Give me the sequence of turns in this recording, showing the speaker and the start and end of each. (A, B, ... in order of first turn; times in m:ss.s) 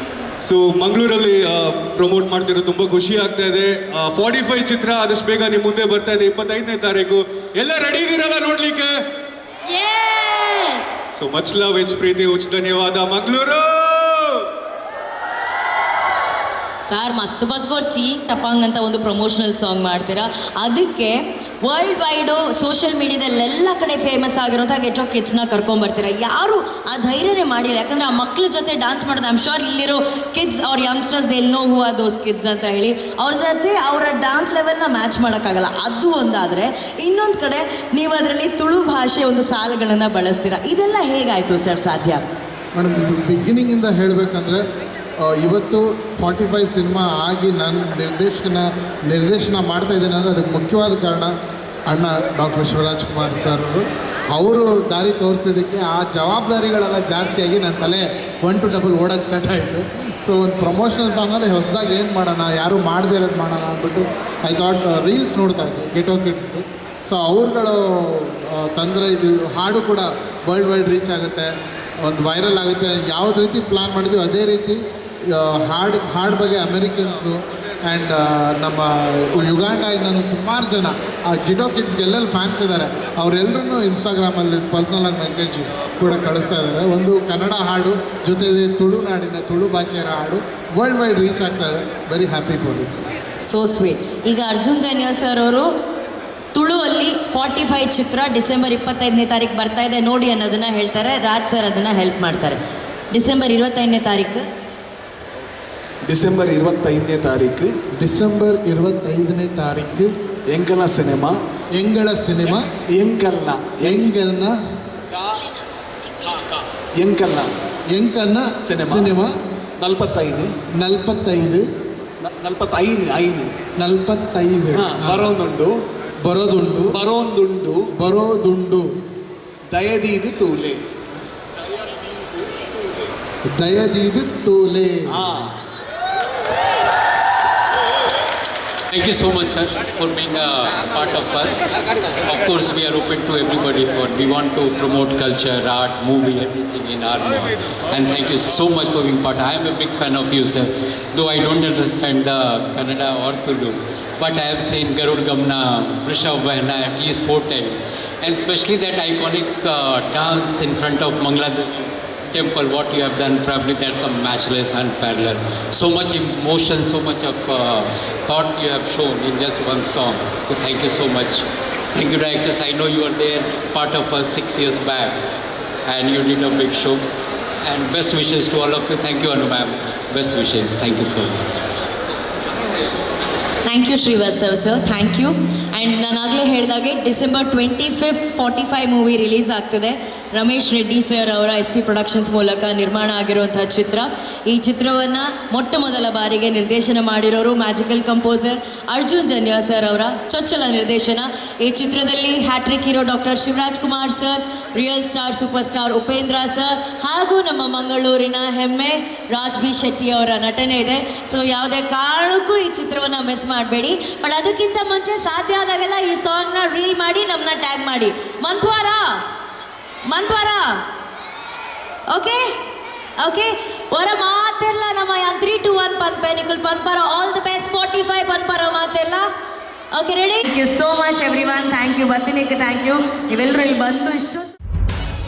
0:00.4-0:09.0 A
0:09.7-0:10.9 B
0:11.2-0:14.4 A
0:16.8-0:42.2 B
0:42.7-0:44.6 C
0:45.2-0:51.3 C
0:51.9-1:32.9 C
1:33.4-1:35.7 B
1:36.5-1:42.6 B
1:43.1-1:44.4 B
1:46.0-1:47.7 D
1:48.0-1:50.1 C
1:50.5-1:51.4 D
1:51.8-1:52.7 C
1:52.5-1:54.0 D
1:53.8-1:54.6 C
1:55.1-1:57.5 D
1:57.9-1:59.3 C
1:58.6-1:59.1 D
1:59.8-2:00.5 D
2:00.8-2:01.6 C
2:02.2-2:03.5 D
2:03.8-2:05.2 C
2:04.7-2:05.7 D
2:06.3-2:07.0 C
2:06.9-2:07.8 D
2:08.0-2:08.9 C
2:09.7-2:10.8 D
2:11.6-2:13.1 D
2:13.5-2:15.1 C
2:15.1-2:15.5 D
2:18.9-2:21.7 E
2:22.2-2:55.2 E
2:55.8-2:57.0 E
2:57.6-3:01.4 E
3:03.6-3:39.1 B
3:40.1-3:40.7 B
3:42.1-3:42.4 B
3:43.2-3:49.2 B
3:49.9-3:54.5 B